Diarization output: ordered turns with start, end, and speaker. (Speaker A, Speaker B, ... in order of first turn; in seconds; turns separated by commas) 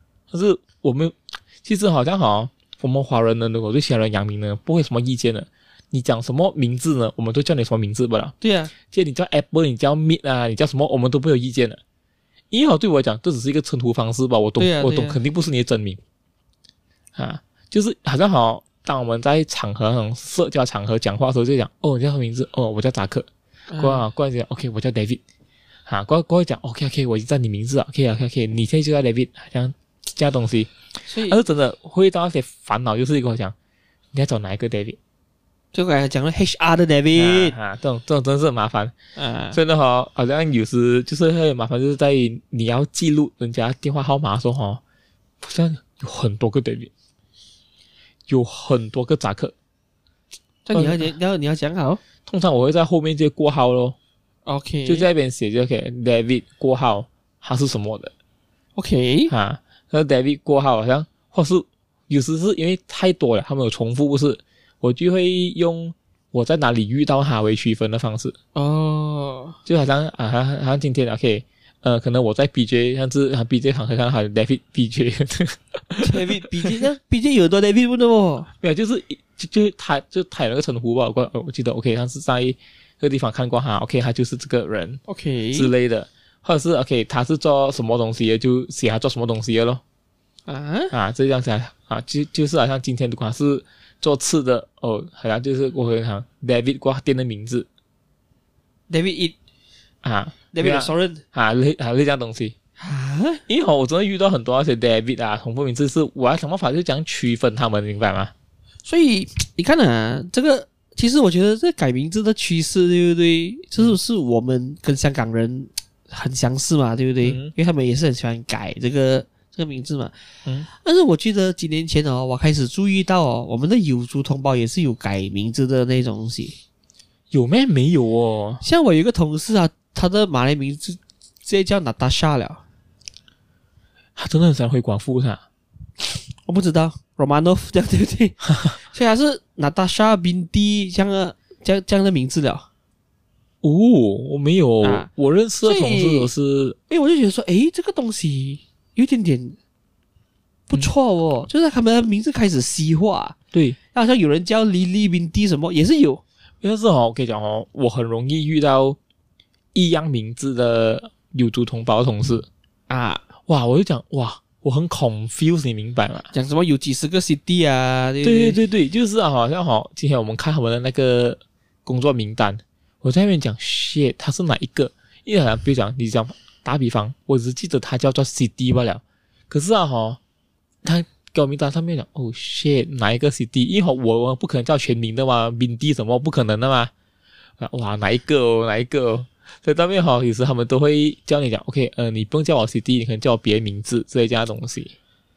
Speaker A: 0.3-11.8, Speaker B: 8.4-8.7, Speaker A: 12.5-16.0, Speaker B: 14.6-15.2, Speaker A: 17.1-23.3, Speaker B: 23.7-24.0, Speaker A: 23.8-25.2, Speaker A: 25.9-30.7, Speaker B: 31.0-31.4, Speaker A: 31.2-33.5, Speaker A: 34.1-35.0, Speaker B: 35.7-37.6, Speaker A: 37.1-38.9, Speaker B: 39.1-39.6, Speaker A: 39.5-44.8, Speaker A: 45.4-46.9, Speaker A: 48.3-49.5, Speaker B: 50.6-52.0, Speaker A: 50.7-51.1, Speaker A: 52.2-54.0, Speaker B: 54.5-55.1, Speaker A: 54.9-58.1, Speaker B: 58.8-59.3, Speaker A: 59.3-68.3, Speaker B: 68.5-69.6, Speaker A: 69.7-76.7, Speaker B: 76.0-78.5, Speaker A: 78.6-85.0, Speaker B: 85.1-85.7, Speaker A: 85.5-89.8, Speaker B: 90.5-90.9, Speaker A: 90.9-97.7, Speaker B: 98.9-99.3, Speaker A: 100.0-102.5, Speaker B: 100.5-101.2, Speaker B: 102.8-103.4, Speaker A: 103.5-108.3, Speaker B: 108.8-120.1, Speaker A: 117.2-117.5, Speaker B: 120.7-126.5, Speaker A: 127.3-128.6, Speaker B: 128.6-132.6, Speaker A: 134.2-135.4, Speaker B: 136.4-142.7, Speaker A: 143.6-146.8, Speaker B: 144.8-145.1, Speaker B: 145.6-146.3, Speaker B: 146.9-149.6, Speaker B: 150.7-153.3, Speaker B: 153.9-156.2, Speaker A: 156.6-159.0, Speaker A: 159.7-162.5, Speaker B: 162.9-163.2, Speaker A: 163.5-166.3, Speaker B: 166.3-168.6, Speaker A: 168.2-180.2, Speaker A: 180.8-186.9, Speaker A: 187.6-194.9